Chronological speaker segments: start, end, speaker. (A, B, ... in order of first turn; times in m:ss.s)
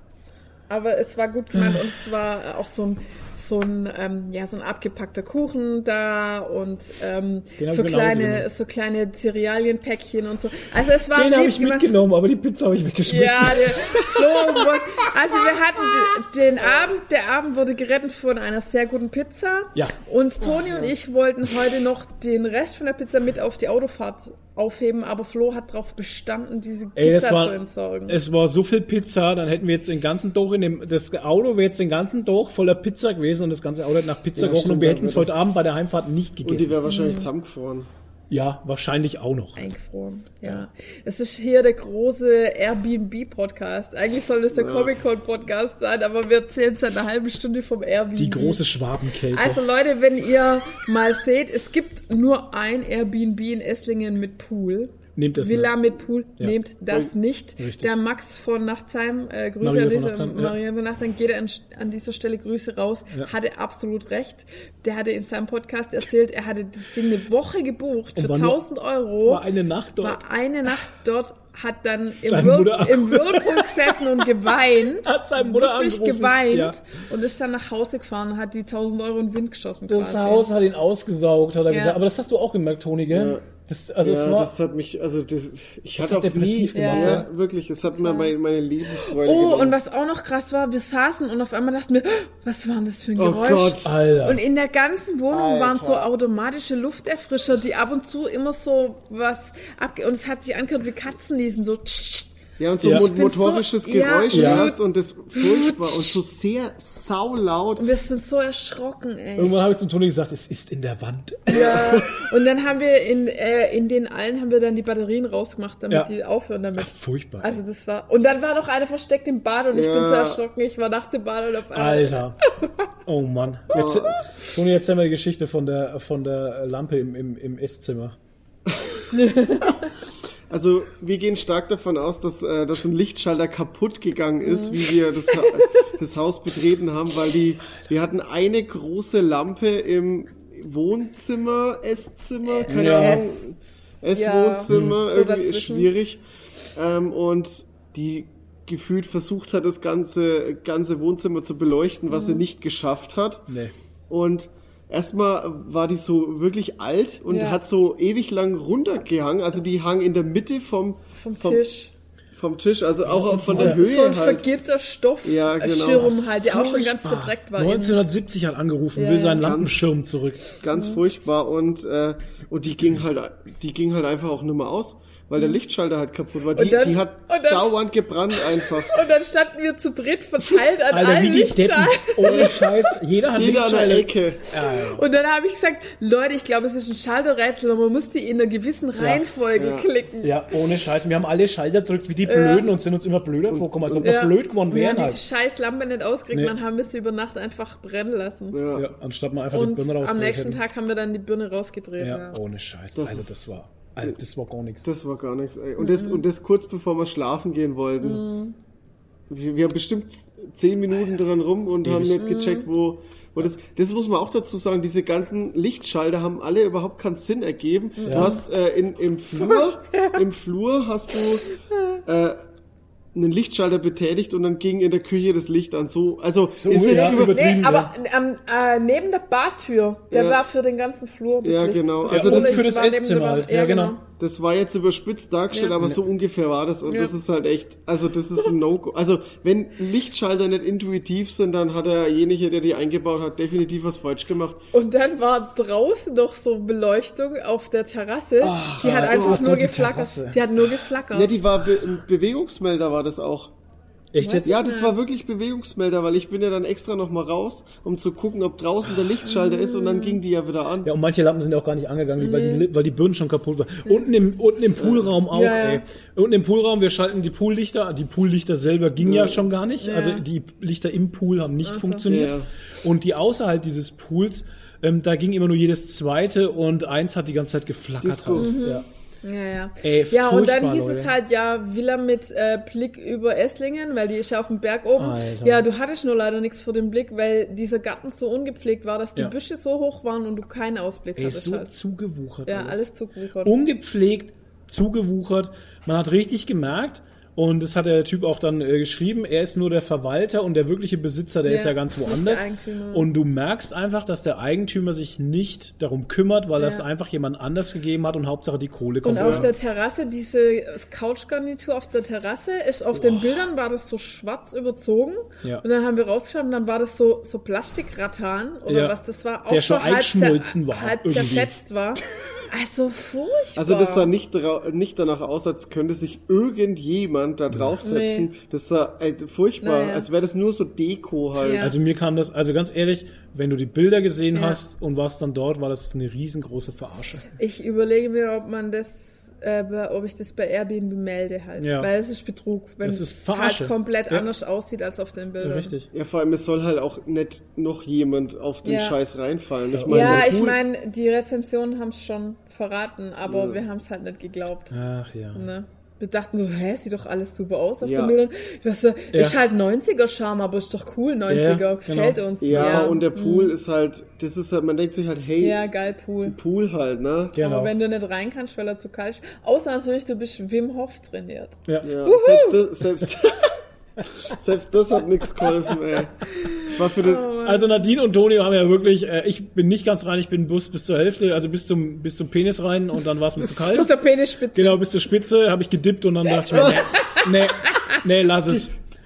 0:00.7-0:11.9 A
0:07.6-0:08.5 B
0:11.1-0:14.7 B
0:13.1-0:28.2 A
0:27.0-0:36.8 B
0:34.4-0:35.3 C
0:36.4-0:37.9 C
0:36.9-0:37.3 A
0:38.3-0:39.7 B
0:39.6-0:48.6 A
0:44.5-0:45.0 C
0:48.2-0:49.6 B
0:49.3-1:09.4 A
0:55.2-0:55.7 B
0:57.6-0:57.9 B
0:59.6-1:00.6 B
1:08.2-1:08.6 B
1:09.2-1:10.2 B
1:10.0-1:20.5 A
1:12.2-1:14.3 B
1:15.0-1:16.8 B
1:19.9-1:24.5 B
1:21.7-1:22.0 A
1:23.1-1:23.5 C
1:24.0-1:29.8 C
1:26.0-1:27.2 B
1:26.7-1:27.2 A
1:27.9-1:28.3 A
1:28.9-1:44.8 A
1:33.2-1:33.9 C
1:33.8-1:34.4 B
1:35.3-1:36.1 C
1:42.6-1:47.8 C
1:42.8-1:43.1 B
1:44.3-1:44.7 B
1:45.3-1:46.2 A
1:47.8-1:49.6 A
1:49.4-1:51.8 B
1:51.5-2:02.8 A
1:51.5-1:52.2 C
1:56.7-1:57.6 B
1:59.7-2:00.4 C
2:01.7-2:02.4 B
2:03.0-2:08.2 B
2:03.7-2:04.2 C
2:09.1-2:09.9 A
2:10.5-2:26.2 C
2:14.4-2:15.9 A
2:22.4-2:25.9 A
2:22.7-2:23.2 B
2:24.7-2:25.0 B
2:26.7-2:33.5 C
2:32.1-2:32.4 A
2:34.1-2:41.6 C
2:37.3-2:37.6 A
2:41.1-2:41.9 A
2:42.3-2:44.4 C
2:43.1-2:43.8 B
2:43.5-2:48.0 A
2:45.2-2:46.2 C
2:46.3-2:50.5 B
2:48.9-2:49.5 A
2:49.4-2:49.9 C
2:50.5-2:59.0 C
2:50.7-2:51.0 A
2:56.5-3:03.0 A
3:00.9-3:05.0 B
3:03.3-3:04.5 C
3:04.6-3:10.5 A
3:09.0-3:09.2 B
3:09.6-3:09.9 C
3:10.2-3:15.2 B
3:12.2-3:12.7 A
3:13.5-3:14.1 C
3:14.0-3:18.6 A
3:18.5-3:18.9 C
3:18.7-3:20.6 B
3:19.5-3:22.4 A
3:22.0-3:24.8 B
3:23.0-3:23.5 C
3:24.8-3:28.2 C
3:25.8-3:26.2 A
3:28.0-3:28.6 A
3:29.3-3:41.5 C
3:31.8-3:32.2 B
3:32.2-3:32.7 A
3:38.0-3:38.4 A
3:38.0-3:38.3 B
3:39.4-3:40.2 A
3:41.7-3:42.0 A
3:42.0-3:42.4 C
3:43.1-3:47.4 C
3:46.6-3:47.9 B
3:46.8-3:54.0 A
3:50.1-3:50.4 C
3:51.4-3:52.7 C
3:52.1-3:54.0 B
3:54.2-4:04.6 C
3:55.5-3:55.8 A
3:56.9-3:57.1 A
4:04.7-4:11.4 A
4:08.4-4:10.4 B
4:09.1-4:09.6 C
4:11.1-4:13.5 C
4:14.1-4:14.5 B
4:14.2-4:14.9 A
4:14.4-4:20.9 C
4:19.2-4:20.2 A
4:20.8-4:38.8 B
4:22.2-4:22.7 A
4:24.8-4:25.1 C
4:25.3-4:25.8 A
4:29.0-4:29.4 C
4:29.8-4:30.2 A
4:31.6-4:32.0 A
4:32.1-4:32.5 C
4:38.0-4:38.6 C
4:38.4-4:51.7 A
4:39.8-4:41.1 B
4:45.0-4:45.6 B
4:51.2-4:52.9 B
4:52.4-4:53.5 A
4:53.4-5:09.5 B
5:01.4-5:03.1 A
5:06.6-5:06.8 A
5:09.0-5:24.1 A
5:09.2-5:09.5 C
5:12.9-5:13.4 B
5:18.7-5:19.0 B
5:19.5-5:21.6 B
5:23.6-5:31.7 C
5:27.8-5:28.3 A
5:29.6-5:30.1 A
5:31.4-5:31.8 A
5:31.6-5:37.2 B
5:34.3-5:34.6 A
5:37.4-5:45.7 A
5:41.6-5:41.9 B
5:42.8-5:44.2 B
5:45.4-5:45.9 B
5:45.9-5:50.6 C
5:48.6-5:49.0 A
5:49.7-5:50.5 B
5:49.9-5:54.7 A
5:53.2-5:53.6 C
5:54.7-5:55.5 B
5:55.3-6:03.6 A
5:57.8-5:58.2 C
5:59.1-5:59.4 B
6:01.3-6:02.9 B
6:02.4-6:05.6 C
6:05.4-6:06.4 A
6:06.2-6:07.4 C
6:07.3-6:07.7 B
6:07.4-6:12.6 A
6:11.8-6:13.6 C
6:14.1-6:17.3 C
6:16.3-6:17.8 A
6:17.4-6:24.0 B
6:23.4-6:24.8 A
6:24.5-6:28.8 B
6:26.4-6:28.0 A